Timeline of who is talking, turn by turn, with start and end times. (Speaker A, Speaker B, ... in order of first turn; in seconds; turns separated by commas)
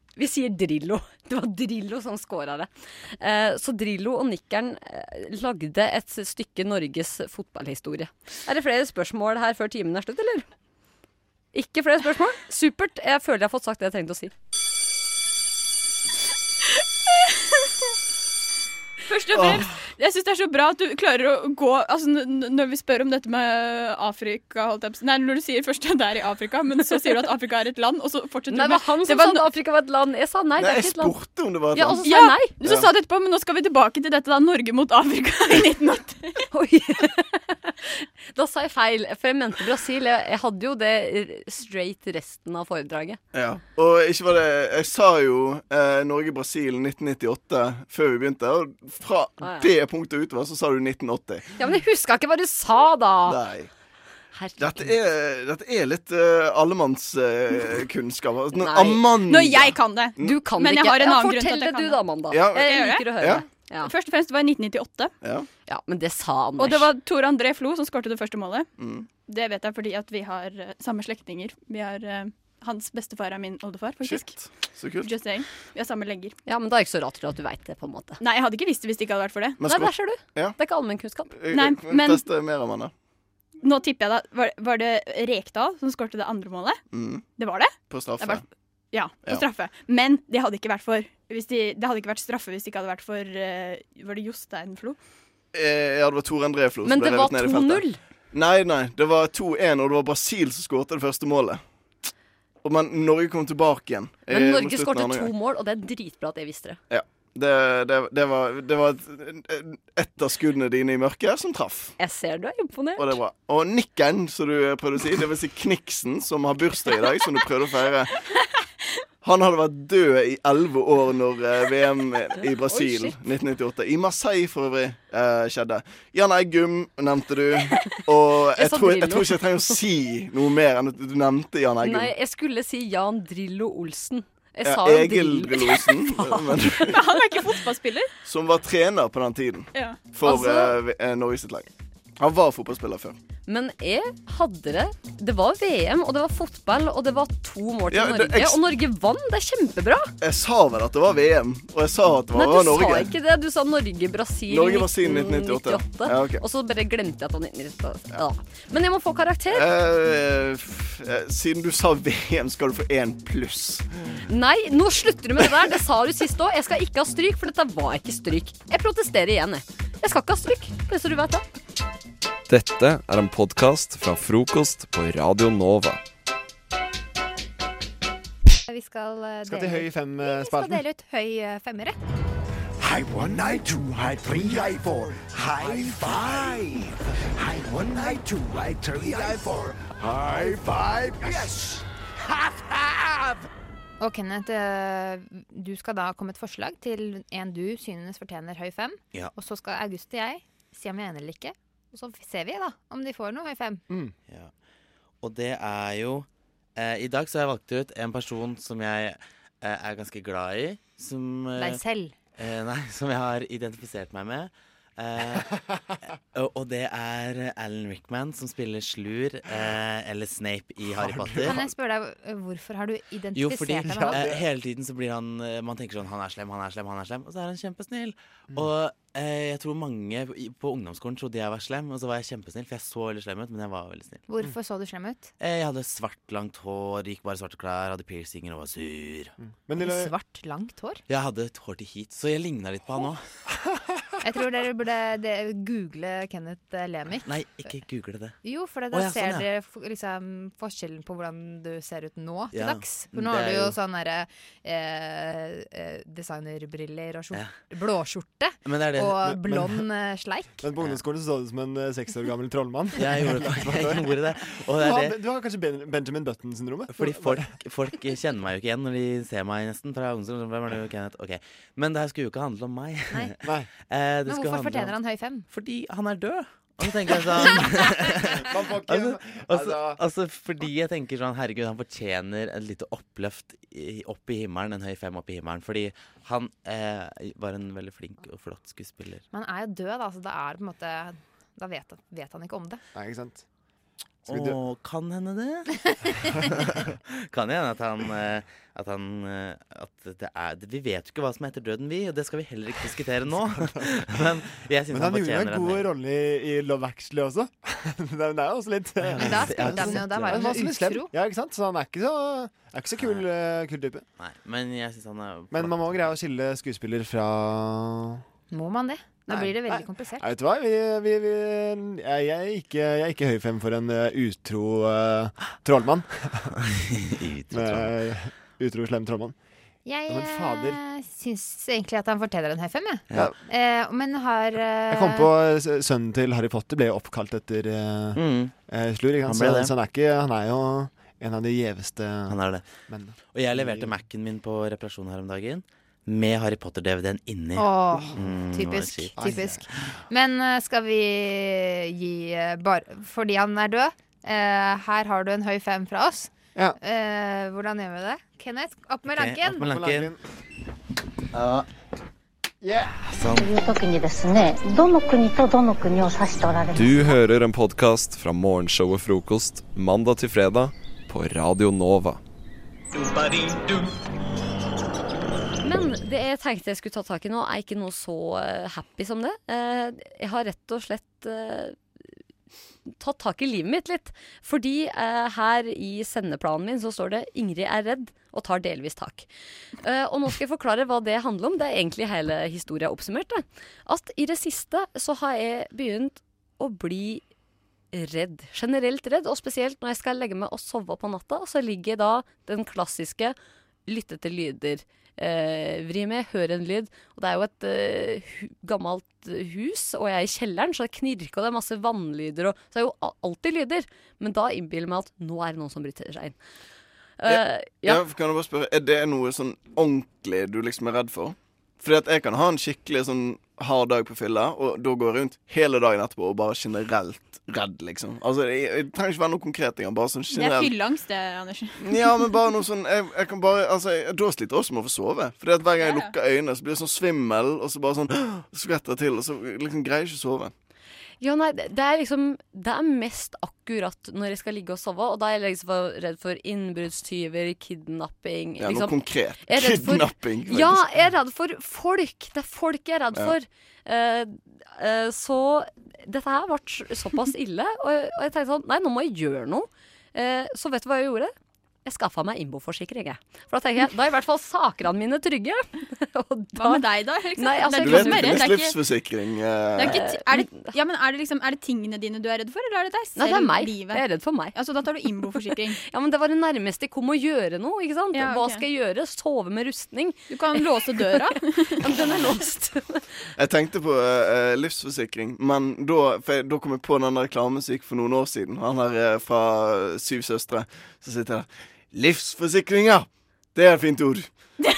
Speaker A: 0.2-10.5, Speaker A: 11.5-14.3, Speaker B: 19.1-29.4, Speaker C: 19.3-19.7, Speaker A: 28.5-31.2, Speaker C: 30.6-32.9, Speaker A: 31.7-32.5, Speaker B: 32.0-36.5, Speaker A: 36.5-43.2, Speaker C: 43.3-51.5, Speaker A: 49.4-49.7, Speaker A: 51.6-53.4, Speaker C: 53.3-53.7, Speaker A: 54.4-54.9, Speaker C: 54.6-60.4, Speaker A: 58.5-59.1, Speaker B: 59.2-62.0, Speaker A: 60.2-63.9, Speaker C: 62.3-63.4, Speaker B: 62.5-63.1, Speaker B: 63.8-65.1, Speaker A: 65.7-66.9, Speaker B: 66.6-68.7, Speaker C: 68.8-69.1, Speaker B: 69.2-74.3, Speaker C: 74.0-75.2, Speaker B: 75.0-76.3, Speaker A: 76.5-78.2, Speaker B: 78.2-79.6, Speaker C: 79.6-80.6, Speaker A: 79.6-81.3, Speaker C: 81.4-82.9, Speaker B: 81.5-82.2, Speaker B: 83.6-86.8, Speaker C: 86.9-87.3, Speaker B: 87.3-95.0, Speaker C: 87.8-88.4, Speaker C: 95.5-101.6, Speaker A: 96.8-98.0, Speaker C: 102.6-105.3, Speaker A: 104.3-106.8, Speaker C: 106.9-112.0, Speaker A: 112.0-113.2, Speaker C: 113.0-118.1, Speaker C: 119.2-132.1, Speaker A: 122.7-123.2, Speaker A: 128.6-129.8, Speaker A: 131.8-137.1, Speaker C: 134.6-137.1, Speaker B: 136.9-138.1, Speaker C: 138.2-141.7, Speaker B: 139.7-140.0, Speaker A: 140.2-140.8, Speaker C: 142.2-143.2, Speaker A: 143.5-150.1, Speaker C: 147.9-148.6, Speaker C: 150.2-153.1, Speaker A: 152.3-159.7, Speaker C: 154.5-156.4, Speaker C: 159.5-163.8, Speaker A: 164.3-171.4, Speaker D: 172.5-176.0, Speaker E: 178.7-182.0, Speaker F: 179.4-180.8, Speaker G: 182.8-193.5, Speaker E: 194.0-203.8, Speaker H: 205.2-211.8, Speaker E: 211.6-212.2, Speaker H: 212.4-215.7, Speaker H: 216.3-221.7, Speaker F: 220.9-221.6, Speaker E: 221.5-224.2, Speaker H: 223.3-234.2, Speaker F: 223.8-224.4, Speaker E: 234.3-235.3, Speaker H: 235.4-239.3, Speaker F: 239.4-240.1, Speaker E: 239.8-241.0, Speaker H: 241.1-243.2, Speaker E: 244.2-247.3, Speaker H: 247.2-248.4, Speaker E: 248.4-260.6, Speaker H: 248.9-249.5, Speaker H: 252.5-253.8, Speaker H: 257.3-257.6, Speaker H: 258.6-259.2, Speaker F: 259.2-259.7, Speaker F: 260.6-264.2, Speaker H: 263.0-265.2, Speaker F: 264.8-267.6, Speaker H: 266.9-275.0, Speaker F: 273.4-273.7, Speaker E: 274.3-275.5, Speaker H: 275.5-289.2, Speaker F: 278.3-280.0, Speaker E: 289.3-292.8, Speaker F: 292.9-293.4, Speaker F: 294.3-294.6, Speaker H: 294.3-295.8, Speaker H: 296.4-305.9, Speaker F: 303.6-303.9, Speaker F: 304.9-314.0, Speaker H: 309.0-310.6, Speaker E: 309.2-311.1, Speaker H: 313.0-313.3, Speaker H: 314.2-316.2, Speaker F: 315.5-318.2, Speaker E: 318.5-320.3, Speaker F: 319.3-326.5, Speaker H: 327.1-328.0, Speaker F: 327.5-329.4, Speaker E: 329.9-335.3, Speaker F: 330.1-330.8, Speaker F: 334.9-343.9, Speaker H: 338.1-338.5, Speaker H: 339.2-339.8, Speaker H: 342.3-349.2, Speaker E: 347.6-359.7, Speaker F: 347.9-348.2, Speaker F: 349.2-349.6, Speaker H: 359.1-360.1, Speaker F: 359.5-360.2, Speaker H: 361.4-361.6, Speaker F: 362.6-362.9, Speaker H: 362.8-363.5, Speaker I: 363.4-367.1, Speaker D: 366.8-372.2, Speaker A: 375.6-381.8, Speaker A: 383.0-389.3, Speaker A: 389.8-397.2, Speaker A: 397.9-403.4, Speaker A: 403.9-416.4, Speaker A: 417.2-418.0, Speaker C: 417.3-430.8, Speaker B: 430.3-431.8, Speaker C: 431.8-440.5, Speaker B: 435.8-436.1, Speaker A: 441.2-461.3, Speaker C: 448.6-450.9, Speaker A: 461.9-466.9, Speaker B: 466.6-468.8, Speaker A: 467.4-468.5, Speaker C: 467.8-470.1, Speaker B: 469.8-475.8, Speaker A: 469.8-470.7, Speaker A: 473.2-474.6, Speaker A: 475.4-483.2, Speaker B: 478.1-478.6, Speaker B: 480.3-481.9, Speaker C: 483.4-494.3